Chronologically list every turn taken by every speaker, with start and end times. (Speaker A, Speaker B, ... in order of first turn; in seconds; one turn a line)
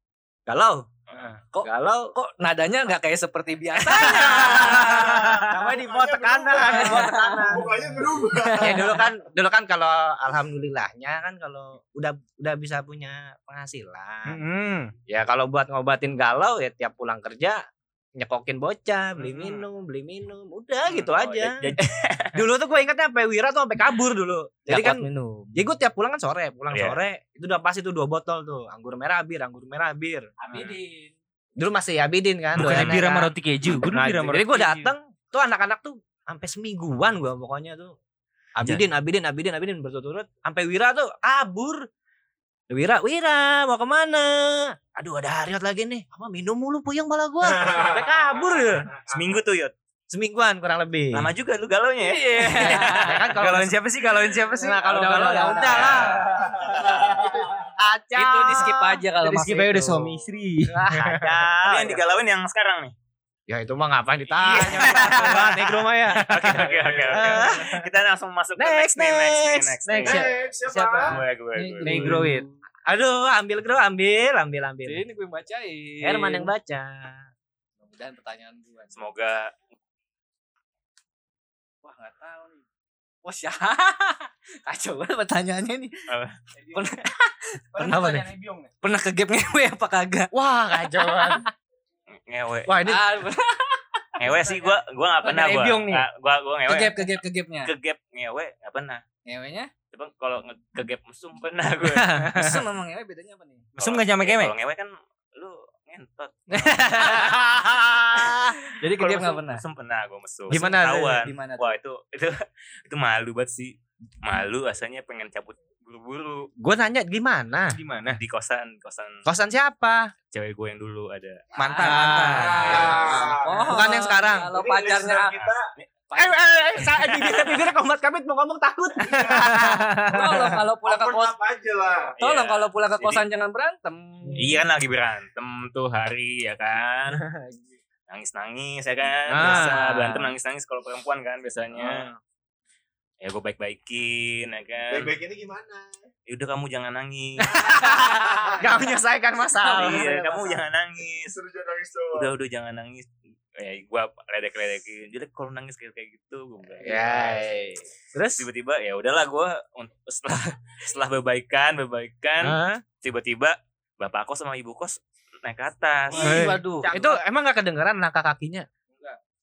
Speaker A: 0.5-0.9
Speaker B: 1.1-1.4
Speaker C: 1.5-5.4
Speaker A: 1.6-2.1
Speaker A: 3.8-7.9
Speaker D: 4.7-5.0
Speaker B: 5.1-5.5
Speaker D: 5.6-8.9
Speaker C: 6.5-7.6
Speaker C: 8.1-9.0
Speaker A: 8.5-14.4
Speaker B: 14.2-14.9
Speaker A: 15.1-17.6
Speaker A: 18.1-21.8
Speaker B: 19.2-19.6
Speaker E: 20.9-22.4
Speaker A: 22.3-30.3
Speaker C: 24.7-25.6
Speaker E: 26.7-27.0
Speaker C: 30.4-31.1
Speaker B: 30.5-30.8
Speaker A: 31.6-33.3
Speaker B: 32.5-34.9
Speaker A: 33.8-38.0
Speaker A: 38.5-41.9
Speaker A: 42.7-48.9
Speaker D: 47.4-48.2
Speaker E: 49.1-49.7
Speaker A: 50.1-51.3
Speaker E: 51.1-53.0
Speaker C: 52.0-53.3
Speaker B: 52.6-56.2
Speaker A: 53.0-53.8
Speaker A: 54.5-56.5
Speaker C: 54.9-56.1
Speaker D: 56.1-57.5
Speaker A: 57.0-59.0
Speaker C: 58.1-60.2
Speaker B: 59.2-61.4
Speaker A: 60.7-62.0
Speaker E: 61.6-62.9
Speaker A: 63.5-67.8
Speaker B: 64.4-65.7
Speaker E: 64.5-65.3
Speaker E: 66.1-70.3
Speaker D: 66.8-67.1
Speaker B: 67.2-67.5
Speaker A: 68.6-70.3
Speaker B: 69.9-71.2
Speaker D: 70.0-71.2
Speaker E: 71.0-72.1
Speaker C: 71.5-72.4
Speaker B: 71.8-72.5
Speaker A: 71.8-75.0
Speaker C: 74.8-76.5
Speaker A: 76.0-77.2
Speaker C: 77.8-79.0
Speaker E: 78.9-79.5
Speaker C: 81.8-82.6
Speaker C: 83.2-86.1
Speaker E: 86.1-86.3
Speaker B: 86.6-86.9
Speaker C: 86.7-88.2
Speaker B: 87.7-88.7
Speaker A: 87.8-88.3
Speaker C: 88.8-90.3
Speaker A: 90.3-91.4
Speaker C: 90.9-91.5
Speaker E: 92.3-92.8
Speaker A: 92.7-93.1
Speaker C: 92.8-94.7
Speaker E: 94.2-99.0
Speaker A: 95.2-96.0
Speaker B: 95.5-96.0
Speaker C: 96.7-97.7
Speaker C: 99.2-99.7
Speaker E: 99.9-102.1
Speaker A: 101.8-102.3
Speaker B: 102.2-102.6
Speaker C: 102.3-103.7
Speaker E: 103.8-107.6
Speaker B: 103.8-104.5
Speaker A: 106.5-108.6
Speaker E: 108.1-116.5
Speaker C: 108.8-109.6
Speaker A: 110.5-111.2
Speaker C: 110.5-111.8
Speaker A: 116.6-117.8
Speaker B: 117.7-118.2
Speaker E: 118.1-119.2
Speaker A: 119.2-120.1
Speaker E: 120.3-121.4
Speaker B: 121.5-123.1
Speaker C: 121.6-125.3
Speaker A: 121.8-124.5
Speaker D: 122.6-123.9
Speaker D: 124.5-125.7
Speaker E: 125.3-125.9
Speaker C: 126.1-127.0
Speaker A: 126.2-130.6
Speaker D: 129.0-132.1
Speaker C: 130.1-131.3
Speaker E: 132.2-133.2
Speaker C: 132.2-134.6
Speaker E: 134.3-137.2
Speaker A: 137.2-137.5
Speaker E: 138.1-142.1
Speaker A: 139.3-140.3
Speaker C: 139.4-140.1
Speaker A: 141.7-142.2
Speaker E: 143.2-145.1
Speaker D: 144.9-145.9
Speaker E: 146.3-147.9
Speaker A: 147.4-150.1
Speaker D: 147.6-148.6
Speaker C: 148.1-148.5
Speaker C: 149.6-150.6
Speaker E: 149.7-151.4
Speaker D: 151.1-152.3
Speaker E: 152.1-157.3
Speaker A: 156.8-158.5
Speaker C: 156.8-157.3
Speaker E: 158.4-166.5
Speaker A: 162.4-162.8
Speaker C: 166.1-166.9
Speaker A: 166.2-168.7
Speaker B: 166.2-167.2
Speaker B: 168.9-169.2